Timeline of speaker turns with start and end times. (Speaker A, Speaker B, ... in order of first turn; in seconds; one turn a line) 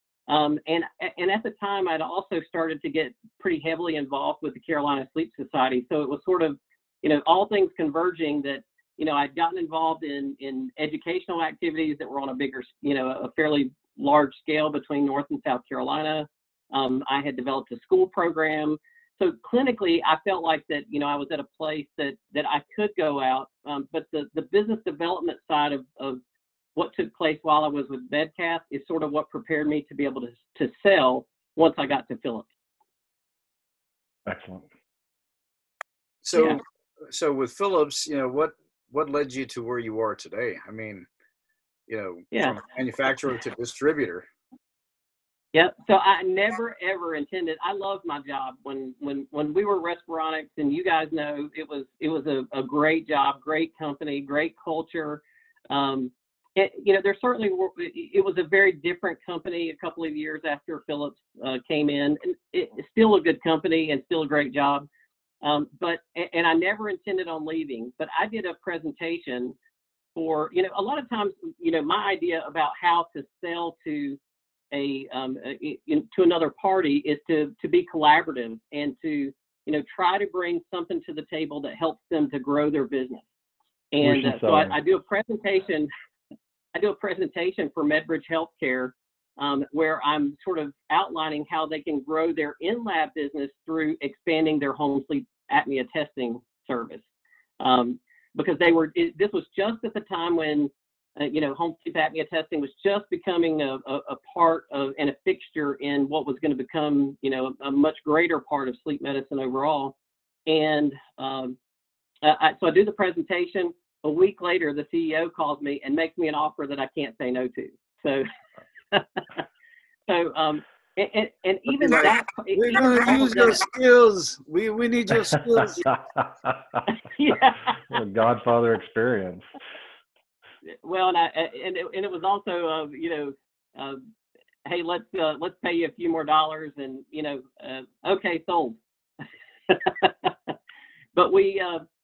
Speaker A: 0.3-26.2
Speaker A: 26.8-32.5
Speaker B: 34.2-34.6
Speaker C: 36.2-41.1
Speaker C: 41.9-44.2
Speaker A: 45.5-64.8
Speaker A: 65.4-69.5
Speaker A: 70.2-74.2
Speaker A: 74.7-83.2
Speaker A: 83.9-85.9
Speaker B: 84.0-84.8
Speaker A: 86.7-97.0
Speaker A: 97.6-110.0
Speaker A: 110.5-111.6
Speaker A: 112.2-118.2
Speaker A: 118.9-119.2
Speaker A: 120.1-123.6
Speaker C: 121.8-125.9
Speaker B: 125.8-126.8
Speaker A: 127.1-128.0
Speaker B: 127.9-129.4
Speaker A: 130.8-134.0
Speaker A: 134.6-138.8
Speaker A: 139.7-140.5
Speaker A: 141.2-141.8